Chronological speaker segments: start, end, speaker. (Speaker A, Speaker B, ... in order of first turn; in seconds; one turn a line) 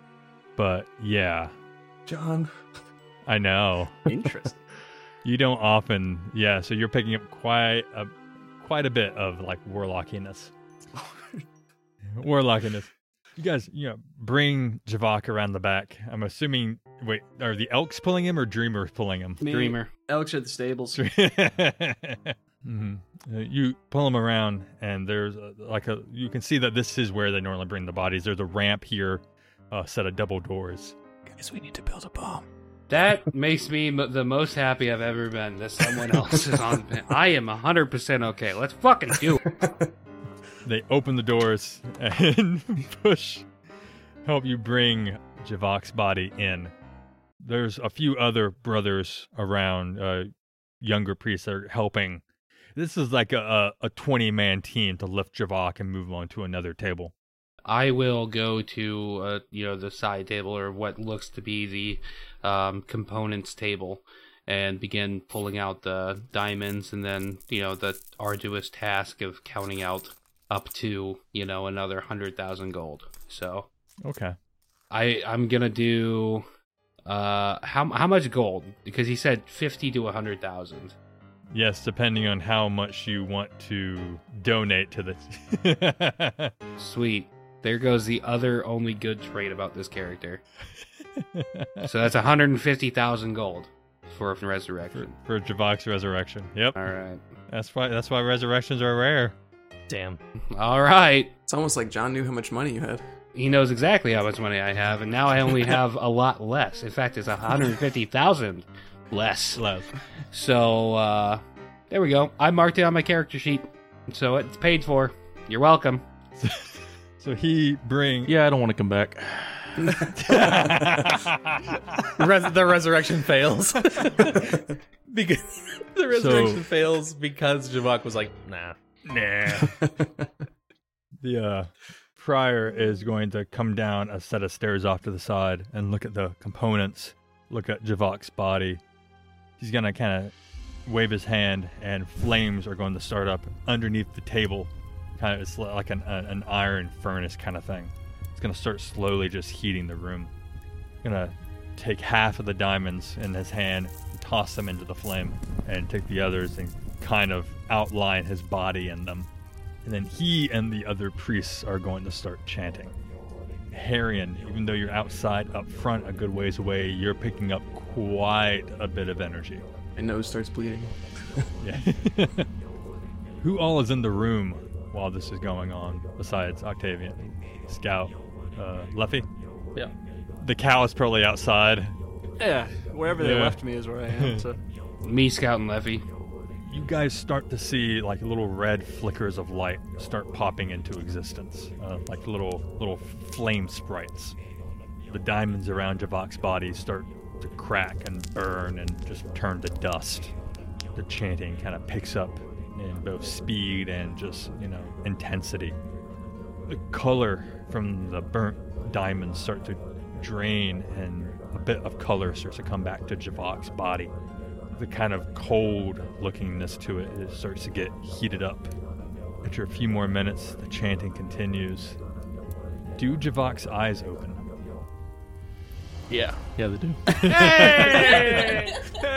Speaker A: 0.6-1.5
Speaker B: 2.0-2.5
Speaker A: 3.2-4.1
Speaker B: 4.1-4.3
Speaker A: 5.2-10.5
Speaker B: 10.9-11.3
Speaker A: 12.1-19.7
Speaker C: 19.4-21.0
Speaker D: 19.4-19.9
Speaker A: 20.9-30.9
Speaker B: 31.3-32.4
Speaker D: 32.9-39.4
Speaker B: 39.5-39.9
Speaker A: 40.6-43.5
Speaker A: 44.2-46.7
Speaker A: 47.4-50.3
Speaker A: 50.8-52.2
Speaker A: 52.7-57.1
Speaker D: 57.6-73.7
Speaker A: 74.0-74.4
Speaker D: 74.9-76.4
Speaker D: 77.0-81.0
Speaker A: 81.5-86.5
Speaker D: 86.8-90.4
Speaker A: 91.2-91.9
Speaker D: 91.8-95.1
Speaker A: 94.9-96.8
Speaker D: 96.8-97.2
Speaker A: 97.5-99.3
Speaker E: 99.9-100.2
Speaker D: 100.5-101.3
Speaker B: 101.5-103.0
Speaker D: 103.3-109.6
Speaker A: 109.5-109.9
Speaker D: 110.3-116.0
Speaker A: 116.4-118.3
Speaker F: 118.2-120.1
Speaker A: 120.2-122.0
Speaker E: 122.2-128.8
Speaker A: 126.1-126.7
Speaker A: 129.0-129.8
Speaker B: 129.6-129.9
Speaker A: 131.2-138.8
Speaker A: 139.6-140.3
Speaker A: 140.8-150.3
Speaker A: 151.0-159.3
Speaker A: 159.8-162.9
Speaker A: 163.7-169.7
Speaker B: 169.9-171.5
Speaker A: 171.6-172.5
Speaker A: 173.4-179.2
Speaker A: 180.4-181.9
Speaker C: 182.4-184.6
Speaker A: 183.1-184.4
Speaker D: 185.0-186.0
Speaker A: 186.6-194.3
Speaker A: 195.1-200.3
Speaker A: 200.9-205.8
Speaker A: 206.7-214.1
Speaker A: 214.7-218.7
Speaker A: 219.4-222.0
Speaker A: 223.0-224.4
Speaker F: 226.1-228.7
Speaker A: 227.2-228.5